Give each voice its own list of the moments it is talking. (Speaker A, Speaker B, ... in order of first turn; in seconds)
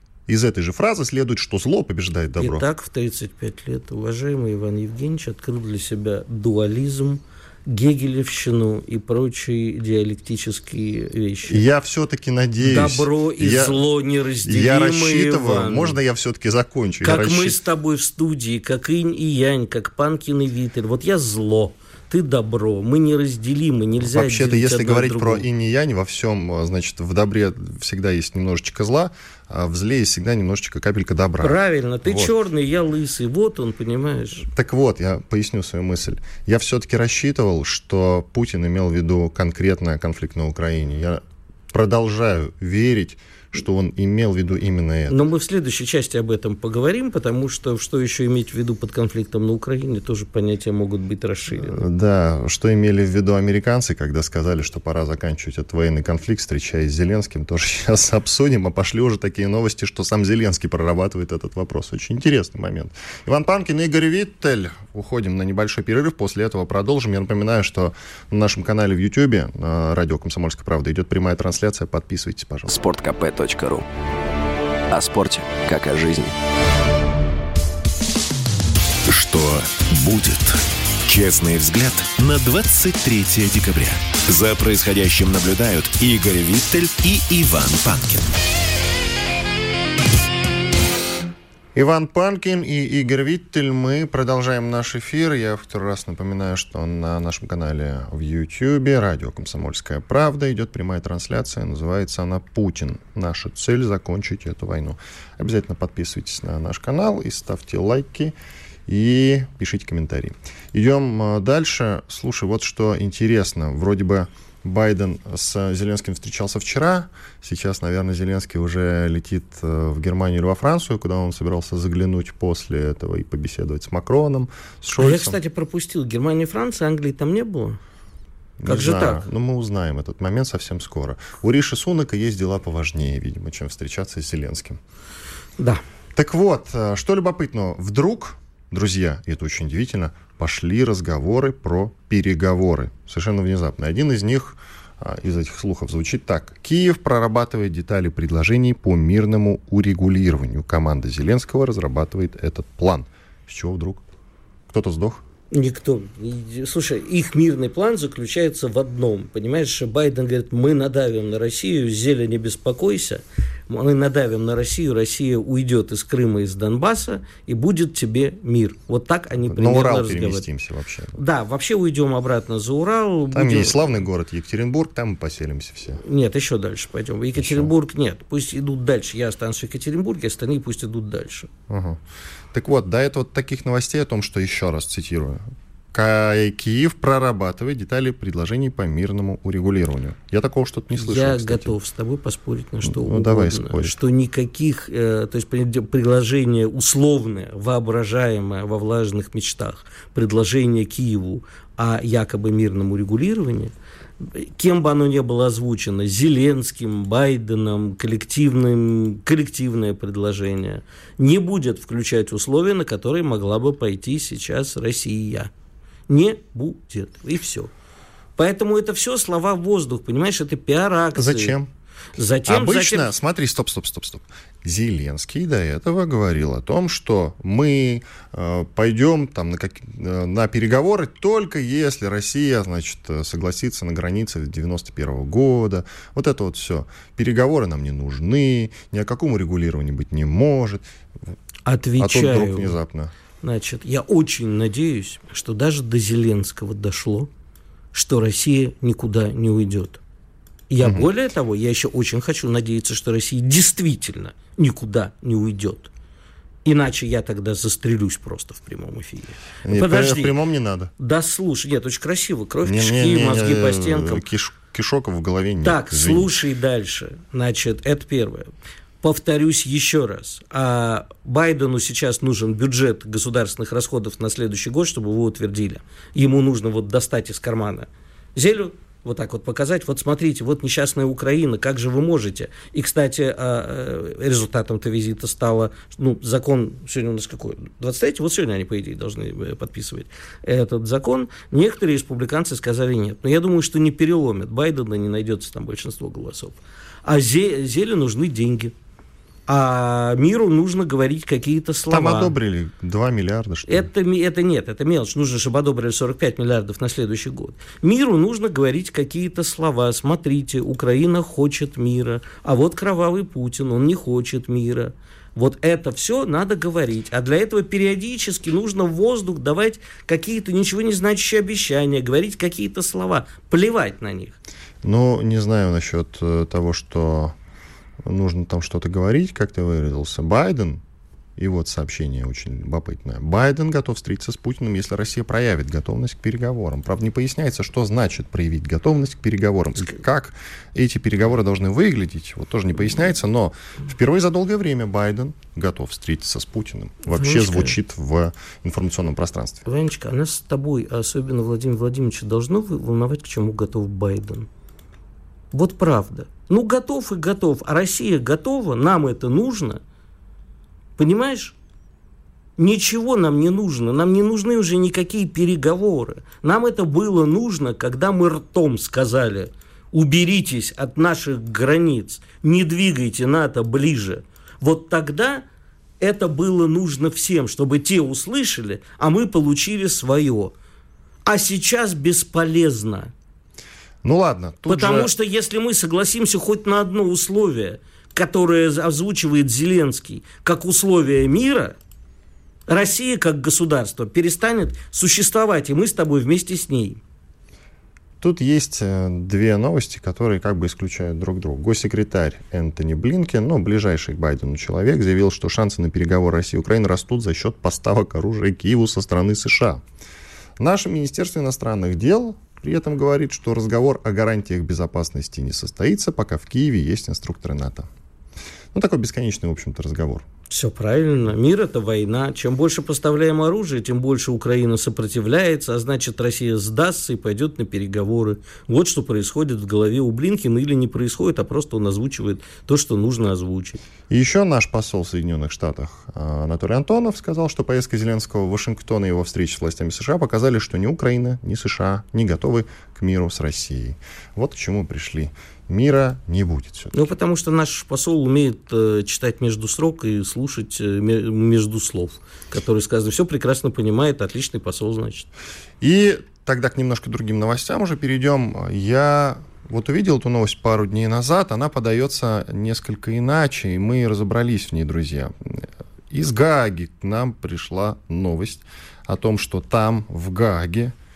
Speaker A: 0.3-2.7, 11.5-13.8, 14.4-17.6, 24.1-32.3, 34.5-45.2, 51.6-72.7, 91.7-108.3, 108.9-125.4, 128.6-134.8, 136.1-154.0, 154.7-155.2, 169.5-171.2, 173.3-176.0, 177.3-177.7, 181.7-182.0, 182.5-191.7, 192.8-194.0, 221.1-221.7, 222.4-240.8, 242.0-243.1, 250.8-251.1, 259.6-260.9, 262.6-266.3, 301.9-303.9, 324.8-327.3, 328.0-330.8, 331.4-349.6, 384.0-385.1, 398.2-409.8, 410.6-417.9, 418.7-420.2, 434.1-447.1, 455.8-470.9
Speaker B: 2.4-11.6, 12.6-16.0, 17.0-25.4, 31.4-34.5, 45.1-51.8, 125.0-127.8, 128.7-129.2, 155.5-170.4, 171.2-174.0, 176.0-181.5, 190.9-215.5, 216.1-217.7, 218.4-221.6, 222.2-223.1, 241.7-242.8, 243.4-247.3, 247.9-250.0, 250.7-255.9, 256.6-260.3, 261.0-264.2, 265.6-268.5, 269.0-298.7, 299.5-302.3, 303.7-324.4, 347.1-347.8, 349.6-354.5, 355.5-359.8, 361.0-361.5, 362.6-375.4, 376.0-380.5, 381.2-383.1, 384.7-391.8, 392.7-397.0, 420.5-433.8, 446.9-455.3
Speaker C: 72.7-73.8, 74.9-76.3
Speaker D: 79.1-88.3